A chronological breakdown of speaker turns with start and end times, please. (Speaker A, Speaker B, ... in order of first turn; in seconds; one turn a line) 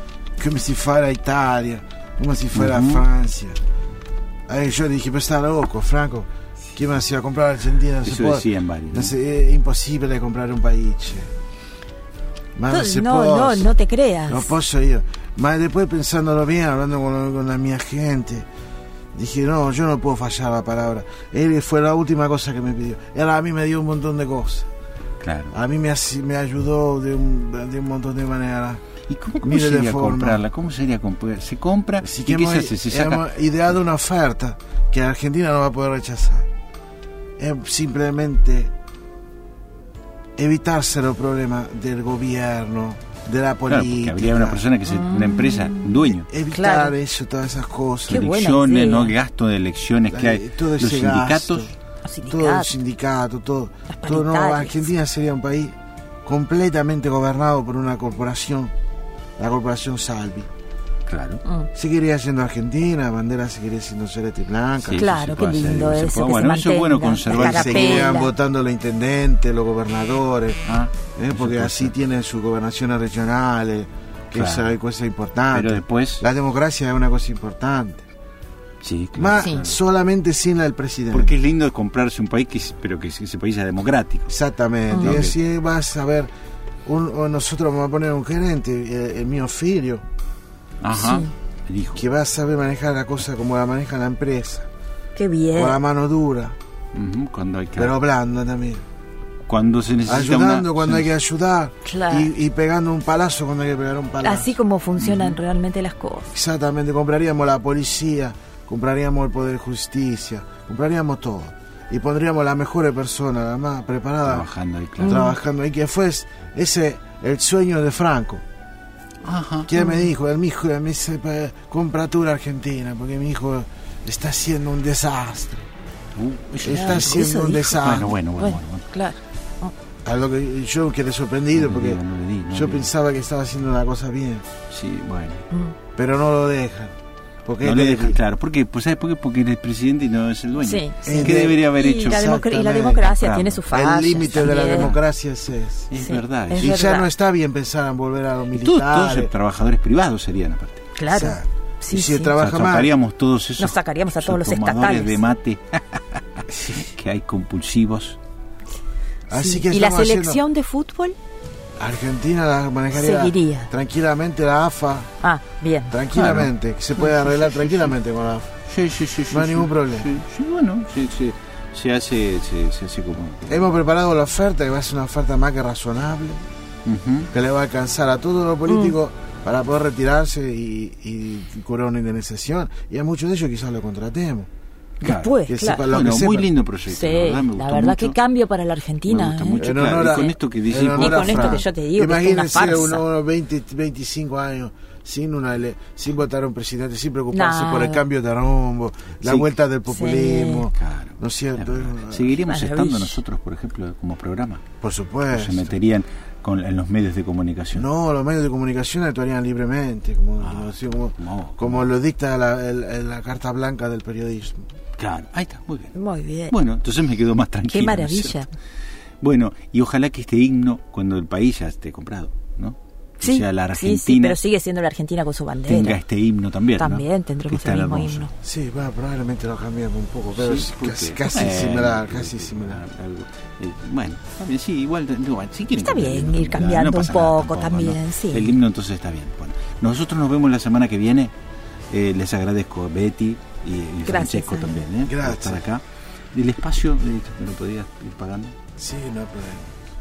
Speaker A: 0.4-3.6
Speaker B: 2.5-3.0
Speaker A: 4.5-11.3
Speaker B: 8.0-9.1
Speaker A: 12.6-13.7
Speaker C: 12.7-14.5
Speaker A: 14.3-18.5
Speaker A: 19.1-24.7
Speaker B: 25.2-25.6
Speaker A: 25.5-28.8
Speaker B: 29.1-33.3
Speaker A: 29.4-30.4
Speaker A: 32.0-36.5
Speaker A: 37.4-38.7
Speaker A: 40.4-44.6
Speaker B: 43.7-46.3
Speaker C: 44.9-46.0
Speaker A: 46.0-48.3
Speaker C: 46.5-47.0
Speaker C: 48.1-49.1
Speaker B: 48.1-51.7
Speaker A: 50.1-58.7
Speaker C: 52.0-52.8
Speaker C: 53.9-54.9
Speaker A: 59.4-60.5
Speaker B: 61.1-61.4
Speaker C: 61.4-61.7
Speaker A: 61.7-65.0
Speaker B: 64.8-68.2
Speaker C: 65.0-68.3
Speaker A: 67.3-70.6
Speaker B: 70.7-72.0
Speaker A: 71.2-78.1
Speaker B: 74.3-74.8
Speaker B: 75.5-76.2
Speaker B: 78.8-79.8
Speaker A: 79.2-81.3
Speaker C: 79.4-79.6
Speaker B: 81.1-84.3
Speaker A: 84.3-86.3
Speaker C: 84.9-85.2
Speaker B: 85.0-85.3
Speaker A: 86.8-90.0
Speaker B: 90.8-92.0
Speaker C: 90.9-91.3
Speaker A: 92.0-94.7
Speaker C: 95.2-95.8
Speaker A: 95.5-96.5
Speaker B: 96.9-98.0
Speaker A: 97.8-98.8
Speaker B: 99.5-101.1
Speaker A: 100.0-104.6
Speaker C: 101.8-102.3
Speaker C: 104.2-106.3
Speaker B: 105.0-105.4
Speaker A: 106.3-114.5
Speaker B: 114.2-115.3
Speaker A: 115.0-118.4
Speaker C: 115.1-115.4
Speaker B: 119.2-119.7
Speaker A: 119.7-125.7
Speaker C: 119.8-120.1
Speaker B: 126.2-128.8
Speaker A: 126.6-128.1
Speaker C: 126.7-127.8
Speaker C: 128.4-129.7
Speaker A: 130.0-134.5
Speaker B: 131.5-132.9
Speaker B: 134.7-135.4
Speaker A: 136.0-136.9
Speaker A: 137.5-138.2
Speaker B: 137.6-142.3
Speaker C: 140.6-144.9
Speaker A: 141.1-143.1
Speaker B: 142.9-143.7
Speaker A: 143.7-145.9
Speaker B: 144.3-145.0
Speaker B: 145.9-146.8
Speaker C: 146.0-147.1
Speaker A: 146.5-149.3
Speaker B: 148.5-150.9
Speaker C: 151.0-152.3
Speaker A: 151.1-152.9
Speaker B: 152.3-158.2
Speaker C: 153.6-155.2
Speaker A: 159.3-160.4
Speaker C: 159.3-161.2
Speaker A: 161.8-165.1
Speaker C: 162.9-163.7
Speaker C: 165.2-165.9
Speaker A: 165.9-168.5
Speaker B: 166.2-167.9
Speaker B: 168.7-173.6
Speaker A: 169.3-170.1
Speaker A: 173.5-176.4
Speaker B: 176.9-177.3
Speaker A: 177.3-184.5
Speaker C: 178.7-178.9
Speaker B: 185.0-188.2
Speaker C: 185.0-185.9
Speaker A: 185.5-186.5
Speaker C: 186.9-190.3
Speaker B: 189.1-191.7
Speaker A: 189.6-202.4
Speaker C: 190.9-193.1
Speaker C: 197.3-198.1
Speaker B: 199.2-199.5
Speaker C: 199.9-200.7
Speaker B: 200.8-204.6
Speaker C: 202.4-203.2
Speaker A: 204.8-205.8
Speaker B: 205.3-207.9
Speaker A: 207.8-214.7
Speaker B: 210.4-211.9
Speaker B: 215.0-215.9
Speaker C: 215.9-216.6
Speaker B: 216.5-218.4
Speaker C: 217.7-218.5
Speaker B: 219.2-224.4
Speaker C: 223.2-226.0
Speaker B: 225.7-228.3
Speaker C: 226.8-228.3
Speaker A: 228.4-232.8
Speaker B: 230.3-241.3
Speaker C: 235.7-238.6
Speaker B: 241.9-248.6
Speaker C: 244.1-244.8
Speaker A: 245.0-245.7
Speaker A: 248.8-249.7